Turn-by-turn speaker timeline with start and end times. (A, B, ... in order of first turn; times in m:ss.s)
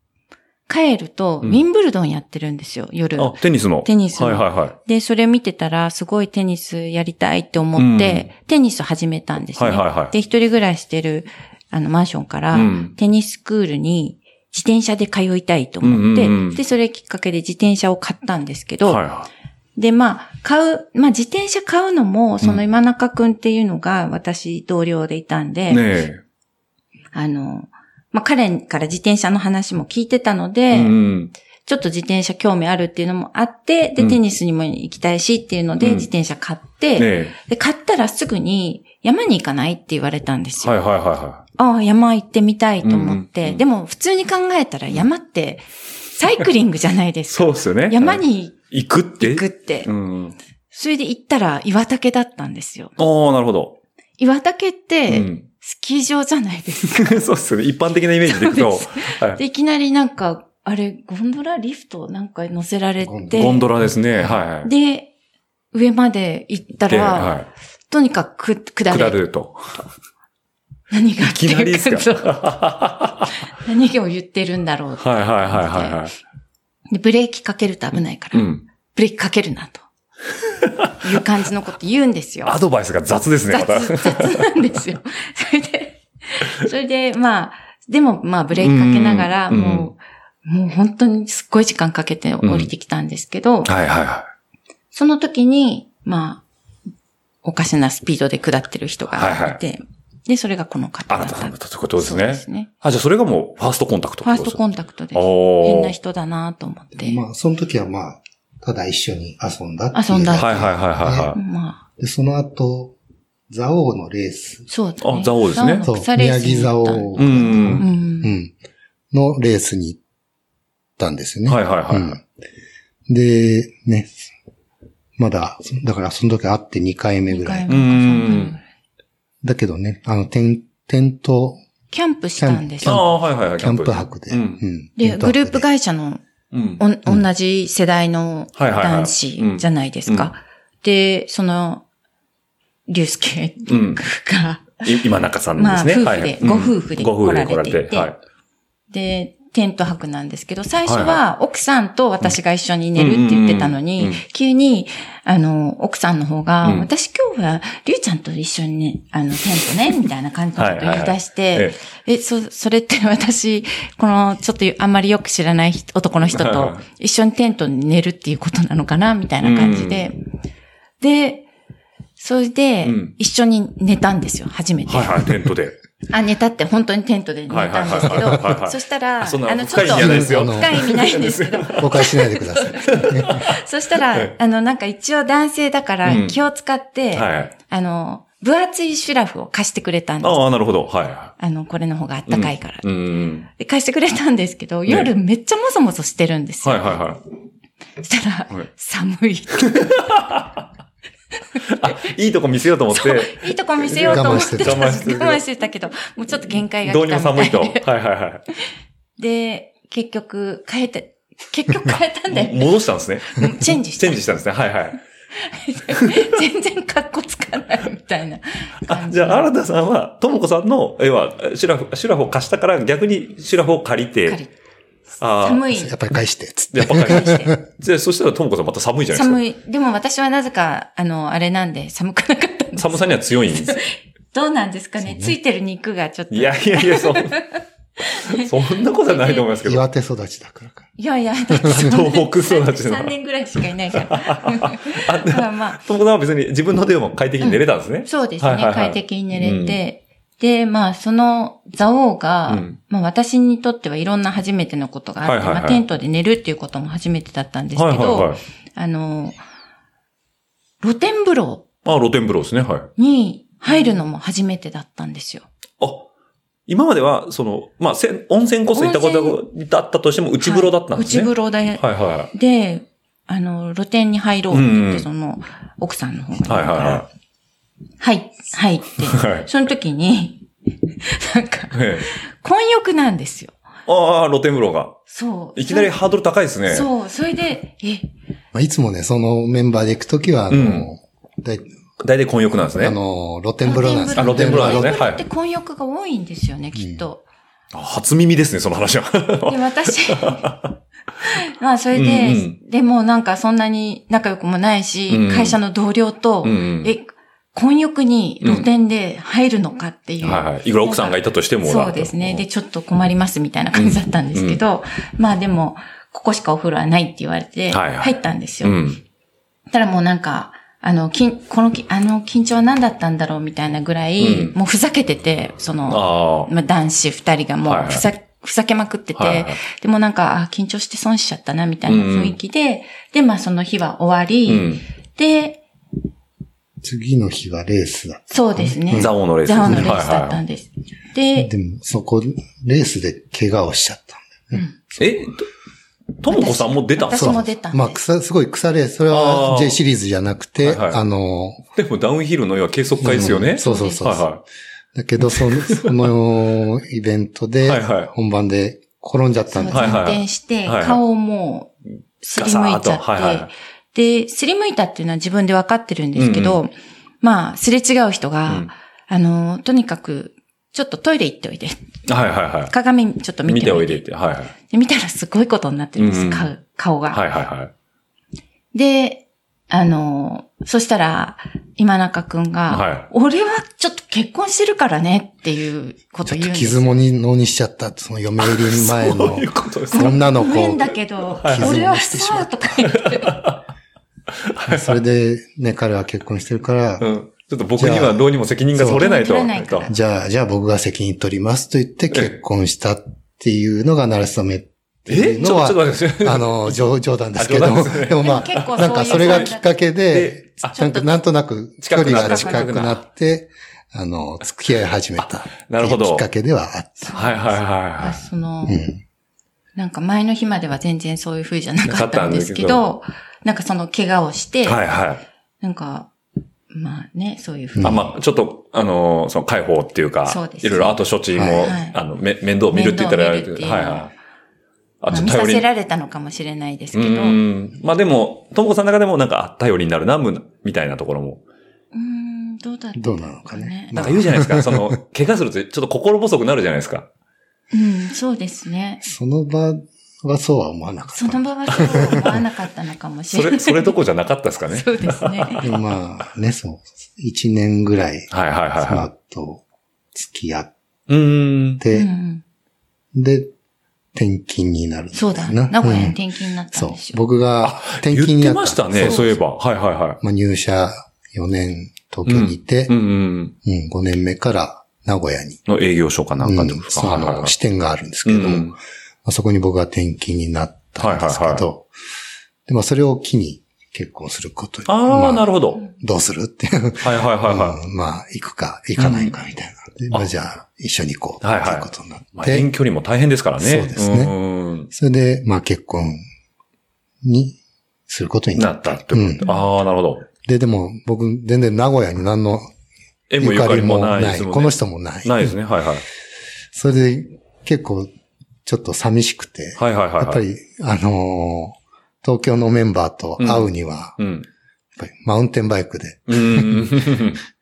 0:00.7-0:19.0 A
0:03.2-0:04.8 B
0:07.8-0:08.3 B
0:09.6-0:10.1 B
0:12.5-0:12.9 B
0:15.8-0:16.6 B
0:18.8-0:19.3 B
0:19.8-0:25.8 A
0:25.7-0:26.2 B
0:27.1-0:31.0 A
0:30.7-0:31.3 B
0:31.6-0:40.7 A
0:35.8-0:36.1 B
0:37.0-0:37.3 B
0:40.6-0:41.4 B
0:41.6-0:48.6 A
0:42.8-0:43.6 B
0:47.3-0:50.3 B
0:49.2-0:49.9 A
0:50.7-0:52.9 A
0:53.0-0:53.8 B
0:54.2-0:57.2 A
0:55.1-0:55.4 B
0:56.9-0:59.4 B
0:58.3-1:03.7 A
1:03.0-1:03.6 C
1:03.3-1:04.7 B
1:04.6-1:05.1 A
1:05.7-1:09.2 A
1:06.9-1:07.5 B
1:08.9-1:09.8 B
1:10.9-1:12.6 A
1:11.2-1:13.3 B
1:13.6-1:16.0 A
1:15.0-1:16.1 B
1:16.9-1:19.8 A
1:18.3-1:18.6 B
1:20.6-1:20.9 B
1:21.0-1:22.6 A
1:22.4-1:24.4 B
1:23.5-1:33.7 A
1:28.5-1:29.9 B
1:32.4-1:32.7 B
1:33.6-1:34.3 B
1:34.9-1:36.4 A
1:37.4-1:42.7 A
1:39.1-1:39.6 B
1:41.1-1:44.6 B
1:44.2-1:47.2 A
1:45.1-1:46.0 B
1:47.0-1:51.3 C
1:49.9-1:50.6 A
1:50.4-1:51.4 B
1:51.3-1:51.8 A
1:52.0-1:53.0 C
1:53.5-1:54.6 C
1:54.7-1:58.3 A
1:55.0-1:55.8 B
1:55.8-1:58.5 C
1:57.2-1:57.8 B
1:59.1-2:00.0 C
2:01.0-2:02.2 C
2:01.5-2:02.2 B
2:03.1-2:04.2 C
2:05.2-2:07.7 C
2:07.3-2:08.6 A
2:07.7-2:08.6 B
2:09.4-2:11.6 C
2:11.9-2:13.0 A
2:12.4-2:15.6 C
2:12.8-2:14.6 B
2:15.0-2:16.2 A
2:16.5-2:16.8 B
2:16.8-2:21.8 A
2:18.6-2:20.3 B
2:22.9-2:24.9 A
2:23.7-2:24.0 B
2:24.8-2:28.2 B
2:25.6-2:28.1 A
2:28.9-2:50.2 A
2:30.8-2:31.2 B
2:33.0-2:34.2 B
2:36.6-2:36.9 B
2:40.6-2:41.8 B
2:46.3-2:46.8 B
2:49.4-2:50.1 B
2:51.0-2:51.4 A
2:52.2-2:55.3 A
2:52.8-2:53.1 B
2:54.9-2:55.8 B
2:56.1-3:10.4 A
2:57.5-3:02.1 B
2:59.8-3:00.8 C
3:01.8-3:03.4 C
3:02.9-3:03.5 B
3:06.0-3:06.4 B
3:07.1-3:07.5 B
3:10.2-3:11.3 B
3:11.4-3:12.9 A
3:12.3-3:13.5 B
3:13.5-3:17.0 A
3:16.6-3:17.2 B
3:18.0-3:20.0 A
3:19.7-3:20.5 B
3:21.7-3:25.4 B
3:22.9-3:27.9 A
3:24.1-3:24.9 C
3:26.8-3:28.4 B
3:29.2-3:34.2 A
3:32.3-3:35.0 B
3:35.4-3:39.5 A
3:38.8-3:44.4 B
3:44.3-3:44.5 A
3:45.2-3:45.6 B
3:45.4-3:46.0 A
3:45.7-3:47.6 C
3:46.7-3:49.4 B
3:46.9-3:47.5 A
3:49.1-3:59.5 A
3:52.8-3:53.8 B
3:55.0-3:55.3 C
3:56.3-3:57.4 B
3:58.3-3:59.8 B
3:59.6-4:00.9 C
4:01.0-4:05.8 A
4:01.6-4:03.1 B
4:03.9-4:09.8 B
4:07.4-4:19.4 A
4:12.5-4:12.8 B
4:15.2-4:15.8 B
4:17.7-4:18.4 B
4:20.8-4:21.7 A
4:21.8-4:22.9 B
4:23.0-4:25.4 A
4:25.8-4:26.1 B
4:26.7-4:32.3 B
4:28.7-4:29.4 A
4:30.4-4:37.0 A
4:34.5-4:35.0 B
4:36.4-4:37.1 B
4:38.0-4:43.6 A
4:39.0-4:39.5 B
4:41.7-4:42.1 B
4:43.9-4:45.0 B
4:45.1-4:45.9 A
4:45.6-4:46.9 B
4:46.7-4:48.1 A
4:48.5-4:51.6 C
4:50.5-4:50.9 B
4:52.0-4:53.0 B
4:52.8-4:55.0 C
4:53.6-4:57.2 A
4:54.2-4:55.2 B
4:56.8-4:57.0 C
4:57.7-5:00.7 B
4:59.5-5:00.5 A
5:01.2-5:18.9 A
5:01.9-5:02.6 B
5:05.1-5:05.6 B
5:06.4-5:06.9 B
5:08.4-5:08.7 B
5:10.2-5:12.4 B
5:13.7-5:14.6 B
5:17.7-5:19.0 B
5:19.7-5:35.6 A
5:24.2-5:24.5 B
5:25.9-5:26.5 B
5:27.6-5:28.0 B
5:29.1-5:29.6 B
5:31.9-5:32.4 B
5:34.4-5:34.8 B
5:36.8-5:39.9 C
5:38.3-5:41.5 A
5:38.9-5:40.4 B
5:41.4-5:45.1 C
5:45.0-5:45.5 B
5:46.2-5:47.4 B
5:46.3-5:48.0 A
5:47.1-5:51.6 C
5:49.1-5:49.8 B
5:50.6-5:51.0 B
5:51.7-5:54.4 B
5:53.0-5:54.3 C
5:53.6-5:54.0 A
5:54.9-6:00.1 C
5:55.3-5:55.9 B
5:57.6-5:58.1 B
5:59.5-6:11.8 A
5:59.7-6:01.0 B
6:02.4-6:03.5 B
6:06.1-6:06.6 B
6:12.1-6:12.7 B
6:12.7-6:14.0 A
6:13.4-6:14.5 B
6:14.7-6:17.2 A
6:16.0-6:16.5 B
6:17.1-6:17.7 B
6:18.7-6:27.0 A
6:22.7-6:23.1 B
6:26.2-6:30.9 C
6:28.4-6:30.6 B
6:29.9-6:33.4 A
6:31.4-6:31.7 B
6:31.4-6:32.7 C
6:32.9-6:33.6 B
6:34.4-6:34.9 B
6:34.7-6:37.1 C
6:37.0-6:39.9 B
6:37.8-6:39.1 C
6:38.9-6:39.9 A
6:39.9-6:57.2 C
6:45.1-6:49.5 B
6:48.2-6:49.7 A
6:50.1-6:50.9 B
6:50.7-6:51.1 A
6:51.8-6:53.0 B
6:52.0-6:52.6 A
6:55.2-6:56.2 B
6:57.1-6:58.8 A
6:57.1-6:58.2 B
6:58.6-6:59.0 C
6:59.8-7:04.8 A
7:01.8-7:02.8 B
7:04.6-7:05.2 B
7:05.6-7:06.1 A
7:06.7-7:08.1 A
7:07.7-7:08.1 C
7:07.8-7:14.1 B
7:10.2-7:11.0 A
7:11.3-7:11.7 C
7:11.6-7:12.0 A
7:12.7-7:14.1 A
7:15.0-7:15.6 B
7:15.1-7:17.4 A
7:16.9-7:21.4 B
7:21.9-7:24.1 A
7:23.0-7:25.0 C
7:23.9-7:27.1 B
7:27.7-7:29.0 A
7:29.0-7:32.4 C
7:31.1-7:34.0 A
7:33.3-7:35.7 B
7:34.7-7:35.7 A
7:35.6-7:39.6 C
7:38.3-7:39.1 B
7:40.1-7:40.7 C
7:41.1-7:41.8 B
7:41.8-7:42.1 C
7:41.9-7:42.4 A
7:43.1-7:43.5 C
7:44.1-7:46.2 C
7:45.1-7:47.2 A
7:46.7-7:49.4 C
7:47.6-7:50.2 B
7:49.0-7:49.3 A
7:50.2-7:53.0 C
7:52.2-7:53.5 B
7:53.6-7:55.6 C
7:55.7-7:57.5 B
7:56.4-8:01.9 C
7:58.2-7:58.8 B
8:01.0-8:01.6 B
8:02.7-8:12.7 C
8:04.9-8:05.8 B
8:07.0-8:07.8 B
8:09.0-8:09.3 B
8:11.4-8:14.9 B
8:13.6-8:14.3 C
8:14.9-8:16.2 C
8:17.2-8:19.5 C
8:18.6-8:20.3 B
8:20.4-8:22.7 C
8:23.3-8:26.0 B
8:23.4-8:25.5 C
8:26.7-8:28.1 C
8:28.6-8:34.2 C
8:29.8-8:30.4 B
8:33.4-8:34.5 B
8:35.0-8:37.2 C
8:36.3-8:37.4 B